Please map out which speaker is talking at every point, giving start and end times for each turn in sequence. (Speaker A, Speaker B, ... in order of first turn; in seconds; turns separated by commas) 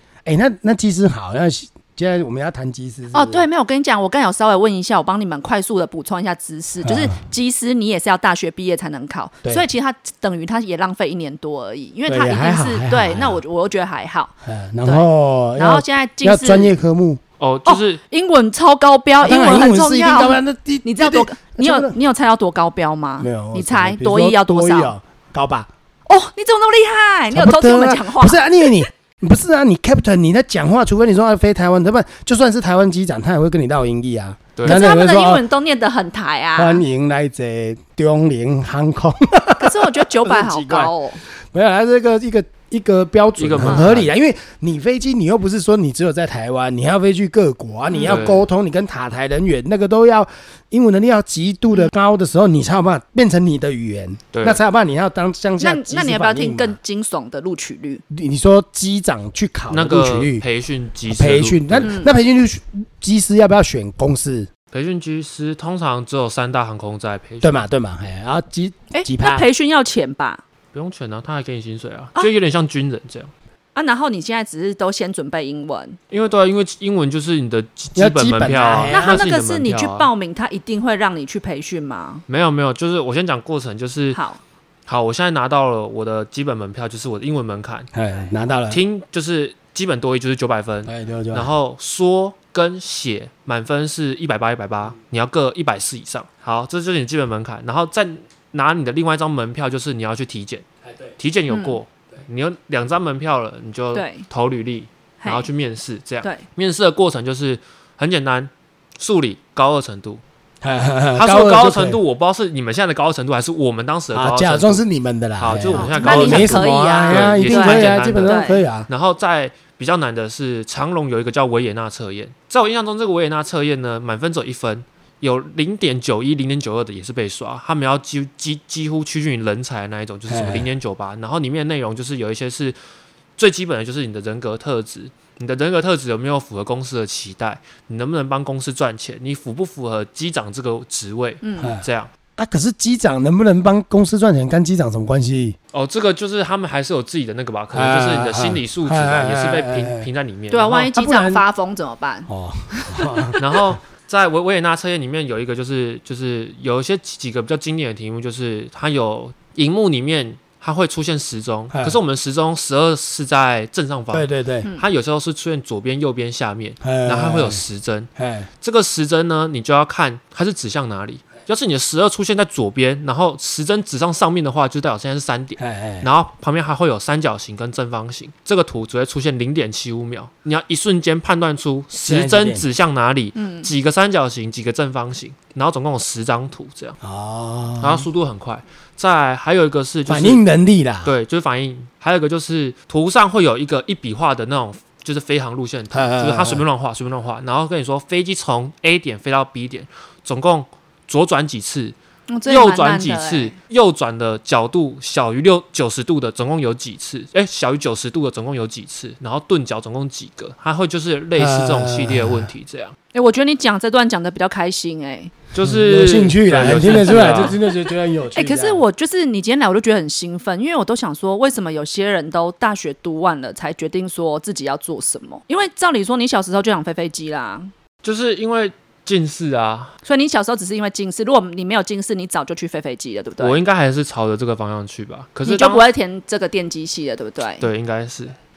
Speaker A: 0.2-3.4, Speaker B: 3.1-16.7, Speaker A: 6.8-7.2, Speaker A: 12.1-13.4, Speaker A: 14.4-17.2, Speaker C: 17.4-18.0, Speaker B: 17.7-24.9, Speaker A: 19.2-22.0, Speaker A: 23.2-25.7, Speaker B: 26.1-28.8, Speaker A: 27.3-35.4, Speaker C: 34.6-34.8, Speaker B: 34.6-36.8, Speaker A: 36.6-40.9, Speaker B: 39.6-41.2, Speaker A: 41.5-56.8, Speaker C: 43.4-44.1, Speaker B: 43.6-43.9, Speaker B: 47.9-48.2, Speaker C: 48.0-48.5, Speaker C: 54.3-54.6, Speaker B: 55.6-58.0, Speaker A: 58.1-60.5, Speaker C: 59.7-61.9, Speaker A: 61.1-64.5, Speaker B: 61.8-62.1, Speaker C: 64.7-67.6, Speaker A: 67.4-69.5, Speaker B: 68.9-70.4, Speaker C: 70.7-73.3, Speaker B: 73.8-76.0, Speaker C: 76.1-80.1, Speaker A: 78.0-79.2, Speaker B: 78.9-82.2, Speaker C: 82.3-84.2, Speaker B: 84.1-84.4, Speaker C: 84.9-87.9, Speaker A: 87.9-88.8, Speaker C: 88.7-100.7, Speaker A: 90.9-91.5, Speaker C: 101.2-110.2, Speaker B: 101.5-101.8, Speaker B: 103.9-104.3, Speaker B: 105.2-105.5, Speaker A: 110.6-112.0, Speaker C: 111.2-114.8, Speaker A: 114.1-118.9, Speaker C: 115.4-132.8, Speaker B: 115.7-118.6, Speaker A: 130.3-130.7, Speaker C: 133.4-142.1, Speaker B: 141.4-141.8, Speaker A: 142.4-145.6, Speaker C: 145.7-150.9, Speaker A: 147.7-150.1, Speaker B: 150.5-153.4, Speaker A: 150.8-151.4, Speaker A: 152.3-153.4, Speaker C: 153.4-187.0, Speaker A: 161.7-162.0, Speaker A: 164.1-164.7, Speaker A: 166.8-167.6, Speaker A: 168.2-168.5, Speaker A: 175.6-176.1, Speaker A: 181.9-182.7, Speaker B: 183.4-183.7, Speaker A: 187.0-188.1, Speaker C: 187.8-190.4, Speaker A: 190.1-191.1, Speaker C: 191.1-212.9, Speaker A: 195.9-196.6, Speaker B: 202.3-203.6, Speaker A: 211.4-212.5, Speaker B: 213.1-215.3, Speaker C: 215.5-217.6, Speaker A: 215.6-218.8, Speaker B: 217.2-217.5, Speaker B: 218.3-227.7, Speaker C: 228.0-229.9, Speaker B: 230.0-233.6, Speaker C: 233.4-235.8, Speaker B: 235.4-237.7, Speaker C: 237.6-238.3